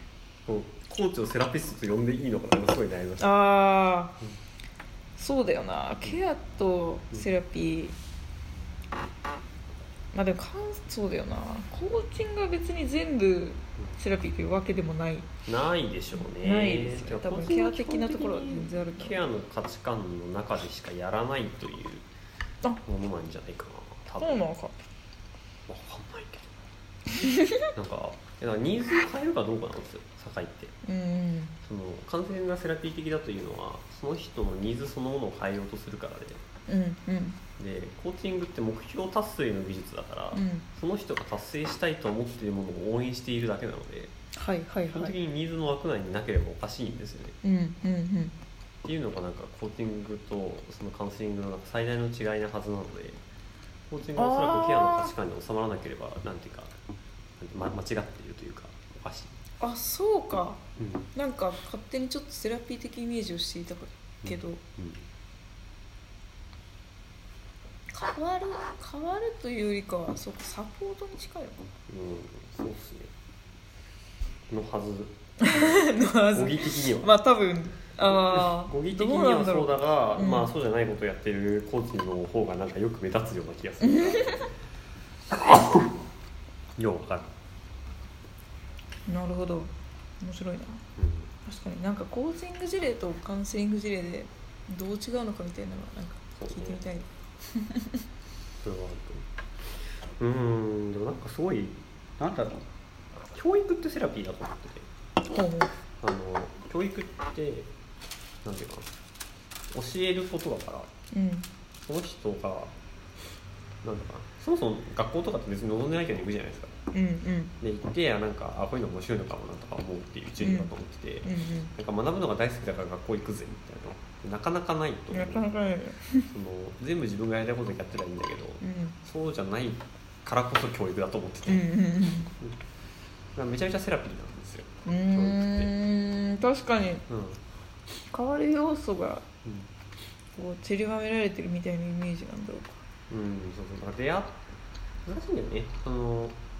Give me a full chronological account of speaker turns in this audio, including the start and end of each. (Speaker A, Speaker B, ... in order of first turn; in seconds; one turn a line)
Speaker A: 0.5-3.3
Speaker B: 3.2-4.2
Speaker B: 5.2-8.0
Speaker B: 10.1-15.3
Speaker A: 15.5-22.1
Speaker B: 16.2-19.2
Speaker A: 22.8-24.4
Speaker B: 24.2-24.8
Speaker A: 25.7-26.5
Speaker B: 27.1-27.7
Speaker A: 27.7-30.7
Speaker B: 30.8-31.5
Speaker A: 31.6-36.4
Speaker B: 36.7-37.4
Speaker A: 37.6-44.1
Speaker B: 40.3-40.6
Speaker B: 44.4-45.1
Speaker A: 44.9-47.4
Speaker B: 47.4-48.3
Speaker A: 48.8-53.2
Speaker A: 53.9-56.7
Speaker B: 54.1-55.1
Speaker A: 57.4-59.4
Speaker B: 59.6-60.6
Speaker A: 60.8-61.1
Speaker B: 61.1-64.6
Speaker A: 64.2-65.0
Speaker B: 67.9-71.6
Speaker A: 71.9-73.1
Speaker A: 74.5-77.1
Speaker B: 75.4-80.5
Speaker A: 78.0-84.6
Speaker B: 83.8-84.3
Speaker A: 86.8-87.3
Speaker B: 89.0-90.8
Speaker A: 91.0-91.3
Speaker B: 91.4-98.0
Speaker A: 96.4-96.8
Speaker A: 98.6-99.2
Speaker A: 100.2-102.6
Speaker A: 103.3-104.9
Speaker B: 105.2-105.7
Speaker A: 106.0-107.7
Speaker A: 108.4-108.9
Speaker A: 109.7-110.9
Speaker B: 111.1-111.5
Speaker A: 111.8-112.7
Speaker A: 113.8-116.7
Speaker B: 116.9-117.5
Speaker A: 117.6-125.5
Speaker B: 120.4-120.7
Speaker B: 121.2-121.7
Speaker B: 125.1-126.3
Speaker A: 126.3-131.6
Speaker B: 128.6-129.0
Speaker B: 131.4-132.3
Speaker A: 133.3-135.7
Speaker B: 134.8-137.0
Speaker A: 137.1-137.4
Speaker B: 138.1-139.2
Speaker A: 139.4-139.7
Speaker B: 140.3-142.8
Speaker A: 143.1-144.4
Speaker A: 145.0-146.4